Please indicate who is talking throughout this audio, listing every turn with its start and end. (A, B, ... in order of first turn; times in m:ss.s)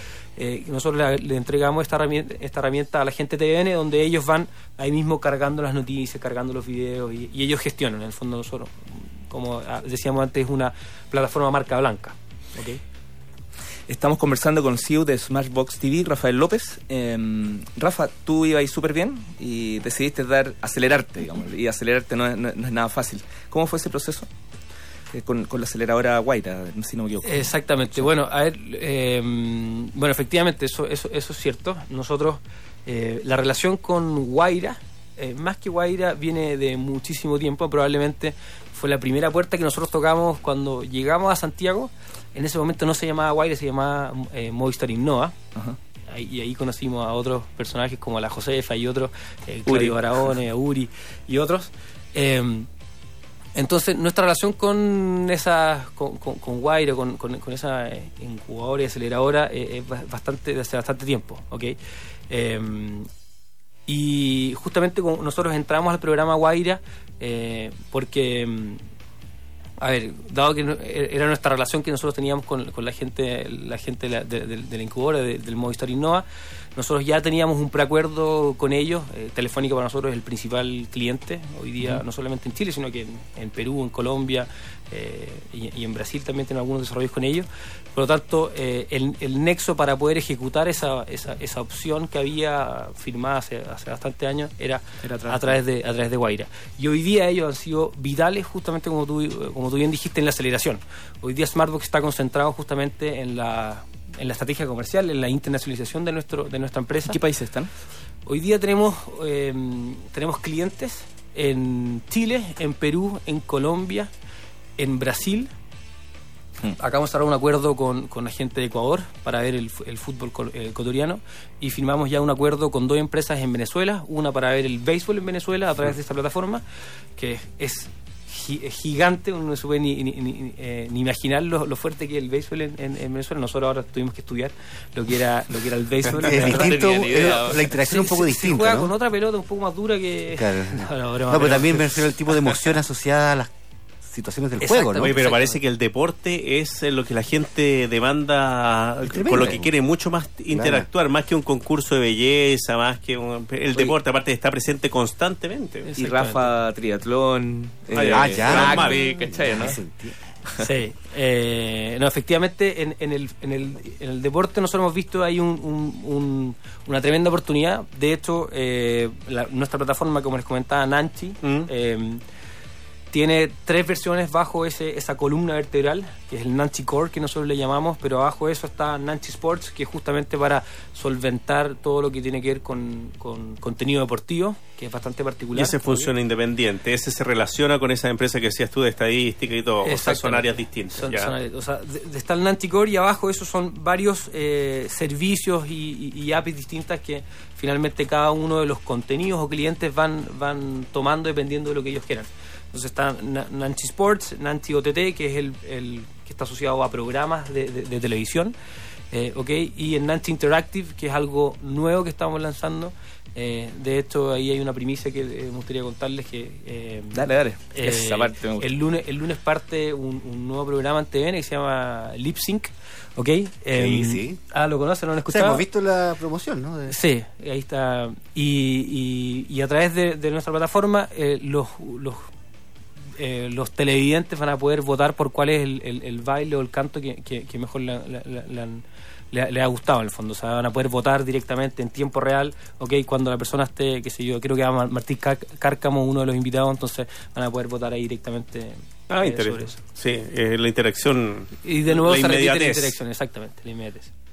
0:00.4-0:12.8 A
0:13.9-0:24.3 B
0:25.1-0:28.1 B
0:27.2-0:45.3 A
0:46.1-0:52.7 A
0:49.7-0:50.0 B
0:53.5-1:01.8 A
1:02.3-1:03.1 A
1:03.8-1:08.8 A
1:09.8-1:47.2 A
1:35.0-1:35.5 B
1:47.0-1:47.7 B
1:48.2-1:54.1 A
1:54.8-1:55.5 A
1:56.7-2:06.6 A
2:07.2-2:22.2 A
2:16.1-2:17.6 B
2:16.2-2:18.9 C
2:20.4-2:23.5 C
2:24.0-2:25.2 C
2:24.6-2:25.6 A
2:25.0-2:35.9 D
2:29.1-2:29.7 C
2:30.5-2:30.9 C
2:35.8-2:36.6 A
2:36.0-2:39.8 B
2:37.9-2:39.0 D
2:38.0-2:40.2 C
2:40.6-2:52.2 A
2:51.4-2:51.7 D
2:53.1-3:06.1 A
3:05.5-3:11.3 D
3:09.8-3:28.5 A
3:29.1-3:45.6 A
3:37.1-3:38.7 B
3:43.7-3:44.4 C
3:45.3-3:47.0 C
3:46.9-3:52.2 A
3:53.2-4:09.8 A
4:09.1-4:12.9 D
4:11.6-4:14.1 A